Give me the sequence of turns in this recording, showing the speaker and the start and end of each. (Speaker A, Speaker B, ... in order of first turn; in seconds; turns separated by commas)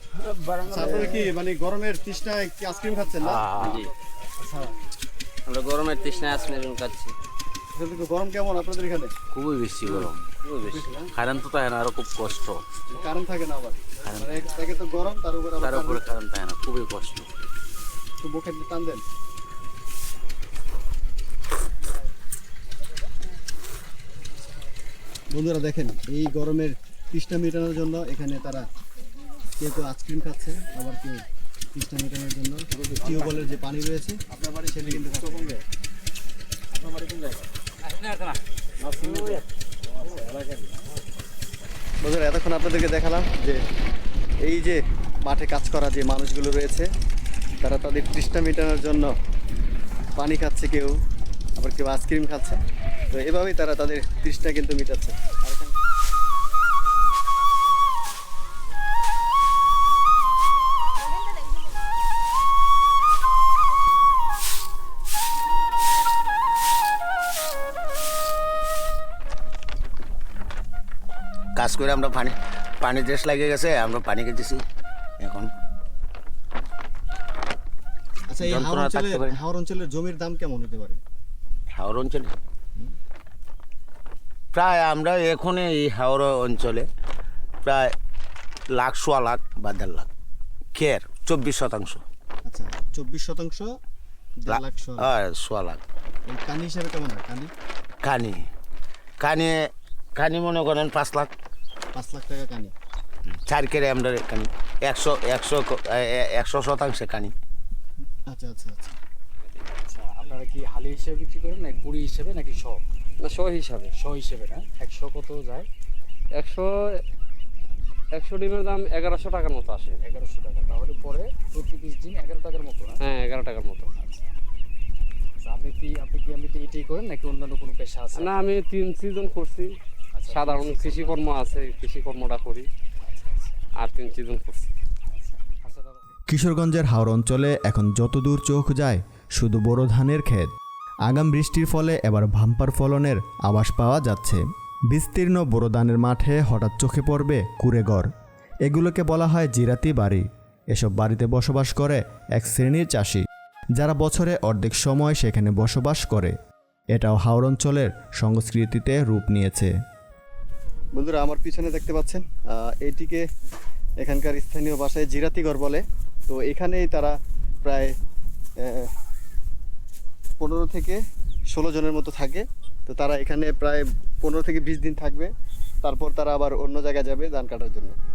Speaker A: 0.7-3.8, Speaker B: 3.3-3.7, Speaker A: 4.4-4.7, Speaker A: 7.7-9.1, Speaker B: 9.3-10.2, Speaker A: 10.6-11.1, Speaker B: 10.8-12.6, Speaker A: 12.9-16.1, Speaker B: 14.1-14.4, Speaker B: 15.6-17.2, Speaker A: 18.2-19.0, Speaker A: 25.3-28.7, Speaker A: 29.6-35.6, Speaker C: 33.0-33.2, Speaker C: 36.8-37.4, Speaker C: 38.9-39.2, Speaker C: 40.0-40.7, Speaker A: 42.0-43.6, Speaker A: 44.4-46.9, Speaker A: 47.6-49.1, Speaker A: 50.2-51.0, Speaker A: 51.6-52.6, Speaker A: 53.1-55.7, Speaker D: 71.6-74.6, Speaker D: 75.2-75.5, Speaker A: 78.3-81.0, Speaker D: 78.4-79.3, Speaker D: 81.8-82.3, Speaker D: 84.5-86.9, Speaker D: 87.7-87.9, Speaker D: 88.7-90.1, Speaker D: 90.8-92.0, Speaker A: 92.5-93.7, Speaker A: 94.4-95.1, Speaker D: 94.5-95.8, Speaker A: 96.3-97.5, Speaker D: 98.0-98.5, Speaker D: 99.2-101.3, Speaker A: 101.9-102.7, Speaker D: 103.5-107.3, Speaker A: 108.3-109.0, Speaker C: 109.9-112.8, Speaker E: 113.2-113.9, Speaker C: 114.0-115.7, Speaker E: 116.4-116.7, Speaker E: 118.1-120.0, Speaker C: 120.0-123.0, Speaker E: 123.0-123.9, Speaker C: 124.0-124.3, Speaker C: 125.4-128.4, Speaker E: 128.2-129.7, Speaker C: 130.1-131.3, Speaker E: 130.3-132.7, Speaker C: 133.1-133.5, Speaker E: 133.8-134.7, Speaker C: 135.1-136.0, Speaker F: 136.3-140.5, Speaker F: 141.1-148.1, Speaker F: 148.7-153.2, Speaker F: 153.8-156.3, Speaker F: 156.9-159.7, Speaker A: 160.9-163.2, Speaker A: 164.0-167.9, Speaker A: 168.6-168.9, Speaker A: 170.4-171.0, Speaker A: 171.5-175.3, Speaker A: 175.8-177.9